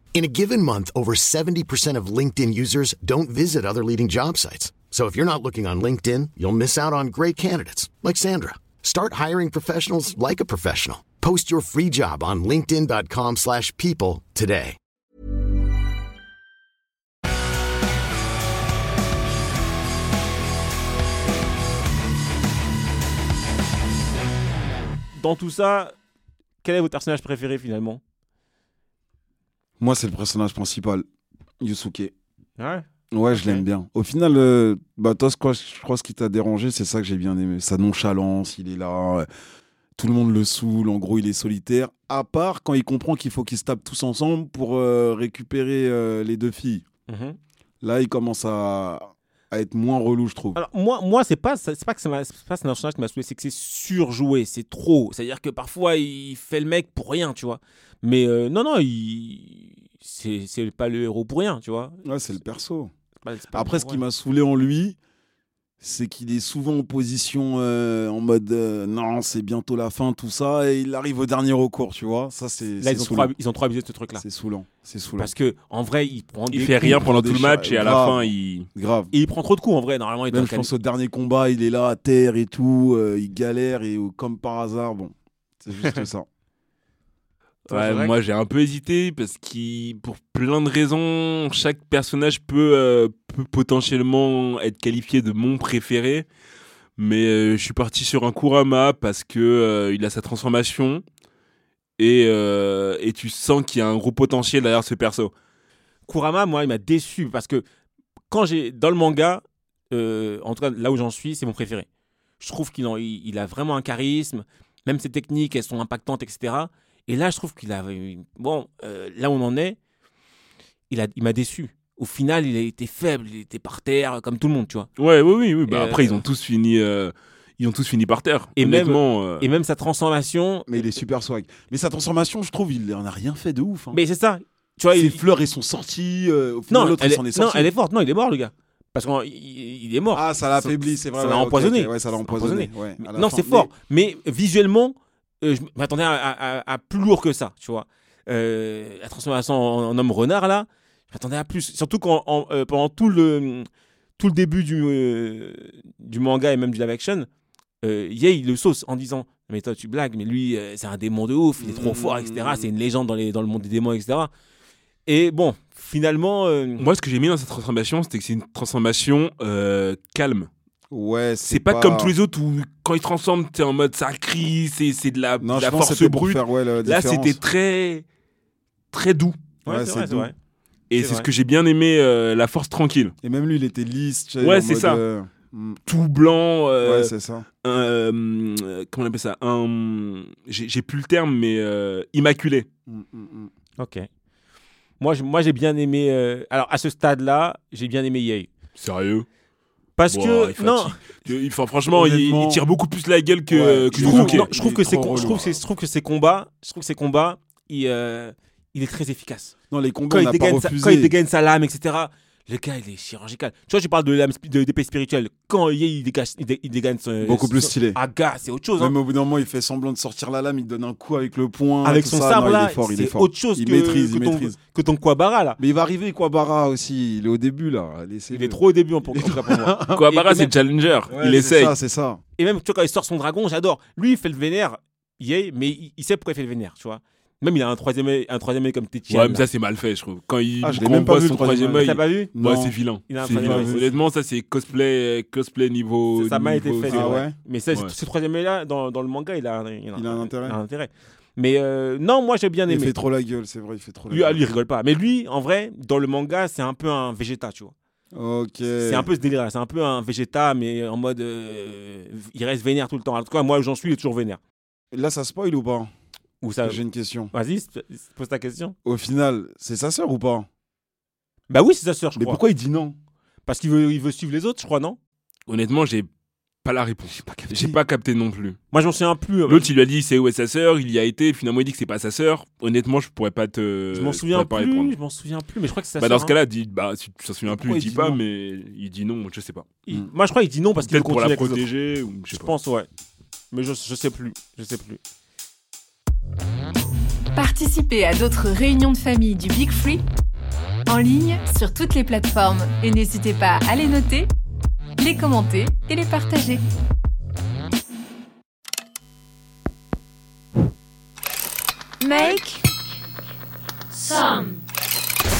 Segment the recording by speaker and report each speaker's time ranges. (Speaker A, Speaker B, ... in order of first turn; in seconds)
Speaker A: 0.1-14.8
Speaker B: 25.1-25.9, 26.6-28.0, 32.6-33.6, 47.1-47.4, 50.5-62.0, 63.2-64.0, 72.8-74.2, 75.2-77.0, 79.1-80.7, 87.7-88.2, 106.1-107.6, 108.3-111.9, 112.4-119.8, 120.9-124.9, 125.7-126.2, 128.6-130.8, 133.9-135.2, 136.7-153.7, 154.2-157.3, 157.8-164.3, 165.1-166.9, 179.6-180.3, 180.9-181.3, 193.8-194.1, 195.0-198.5, 200.0-201.0, 203.9-209.5, 210.1-218.9, 221.8-225.6, 228.3-230.5, 232.4-239.4, 241.8-242.3, 243.1-243.9, 246.1-252.9, 254.1-257.7, 258.8-264.4, 266.4-266.8, 267.3-268.8, 271.5-272.4, 273.4-275.0, 278.7-279.7, 283.9-286.4, 289.9-291.7, 292.3-292.9, 293.5-295.0
Speaker C: 29.8-31.0, 31.6-32.1, 33.1-39.3, 40.0-46.8, 47.8-50.6, 62.0-62.9, 63.5-65.0, 65.8-73.3, 74.2-75.3, 76.8-79.1, 80.3-86.3, 130.7-134.0, 134.9-137.7, 140.1-143.7, 161.6-162.7, 170.9-172.1, 175.4-177.4, 179.7-180.3, 183.2-185.8, 186.8-187.5, 192.9-193.5, 201.9-202.6, 203.5-205.6, 209.7-211.1, 217.2-218.0, 218.8-224.5, 225.6-230.0, 231.1-232.2, 240.6-242.8, 243.3-243.9, 246.8-247.3, 249.9-250.6, 252.7-254.4, 258.1-259.1, 264.9-265.9, 266.6-267.3, 268.8-270.5, 272.1-273.0, 277.1-277.8, 287.5-288.2
Speaker D: 76.5-78.7, 87.7-96.2, 97.0-101.0, 102.0-105.3, 125.0-129.5, 166.8-170.5, 171.4-178.1, 178.9-179.4, 180.9-183.1, 184.4-185.0, 185.8-187.1, 187.6-192.7, 198.8-199.2, 200.1-204.5, 229.9-231.7, 239.1-247.9, 275.5-276.1, 276.6-278.6, 279.5-284.9, 286.0-289.7, 290.8-292.5
Speaker E: 297.3-300.0, 300.9-304.3, 305.0-306.6, 312.1-312.6, 313.9-314.4